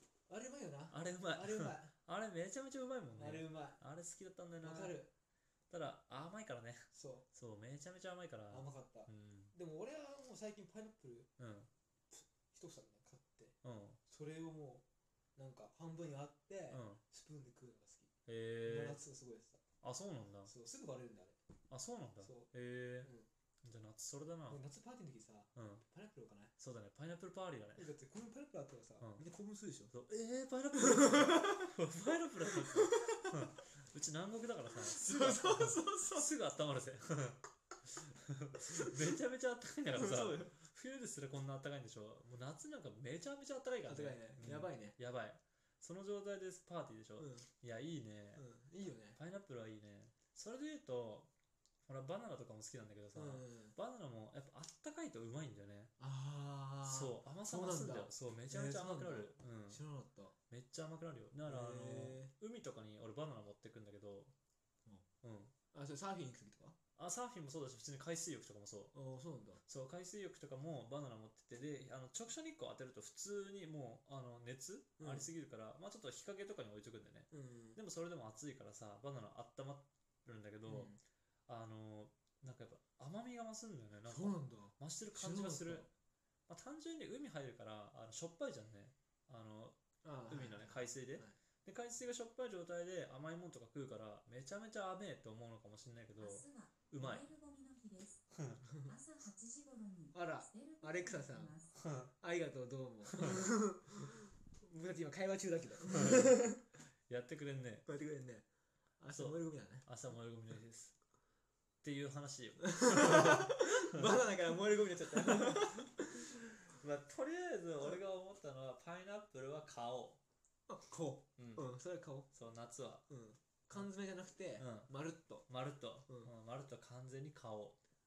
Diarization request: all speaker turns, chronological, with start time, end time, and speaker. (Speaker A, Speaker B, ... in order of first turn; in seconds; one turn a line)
Speaker A: 0.3-1.9
Speaker B: 0.9-5.0
Speaker A: 3.1-3.8
Speaker A: 4.6-5.1
Speaker B: 5.7-9.5
Speaker A: 6.9-7.3
Speaker A: 8.5-11.3
Speaker B: 11.4-11.7
Speaker A: 12.1-13.6
Speaker B: 13.6-14.0
Speaker A: 14.1-14.8
Speaker A: 15.4-18.1
Speaker B: 16.7-17.0
Speaker B: 18.3-19.0
Speaker A: 18.6-19.6
Speaker B: 19.8-20.5
Speaker A: 20.4-21.4
Speaker B: 21.7-23.1
Speaker A: 22.2-22.5
Speaker A: 23.0-23.3
Speaker B: 23.6-24.6
Speaker A: 24.5-26.5
Speaker B: 25.6-25.9
Speaker B: 26.6-27.9
Speaker A: 27.8-29.9
Speaker B: 29.0-29.3
Speaker B: 29.9-48.5
Speaker A: 30.8-31.7
Speaker A: 32.5-33.3
Speaker A: 34.8-36.3
Speaker A: 39.9-40.5
Speaker A: 43.9-45.0
Speaker A: 47.2-47.5
Speaker A: 48.4-49.2
Speaker B: 49.1-51.3
Speaker B: 51.9-55.9
Speaker A: 53.1-53.8
Speaker A: 56.0-60.4
Speaker B: 56.8-59.8
Speaker B: 60.5-64.3
Speaker A: 61.5-62.3
Speaker B: 65.2-65.5
Speaker A: 65.7-66.8
Speaker B: 67.0-69.0
Speaker A: 68.9-69.6
Speaker B: 69.7-81.0
Speaker A: 75.0-75.3
Speaker A: 77.3-77.8
Speaker A: 80.7-81.0
Speaker B: 81.5-85.9
Speaker A: 84.0-85.9
Speaker B: 86.5-97.4
Speaker A: 90.0-91.4
Speaker C: 96.2-98.2
Speaker B: 98.3-98.6
Speaker A: 98.7-98.9
Speaker C: 98.8-101.7
Speaker A: 100.1-106.6
Speaker B: 101.7-102.1
Speaker B: 103.2-103.4
Speaker B: 105.9-106.3
Speaker B: 107.1-107.9
Speaker A: 107.9-108.5
Speaker A: 109.0-109.9
Speaker B: 109.1-111.0
Speaker B: 111.8-114.2
Speaker A: 112.6-116.4
Speaker B: 115.2-116.1
Speaker B: 116.6-120.2
Speaker A: 120.7-122.3
Speaker B: 121.4-121.7
Speaker B: 122.3-123.0
Speaker A: 123.1-125.5
Speaker B: 124.6-124.9
Speaker B: 125.5-127.8
Speaker A: 126.1-126.3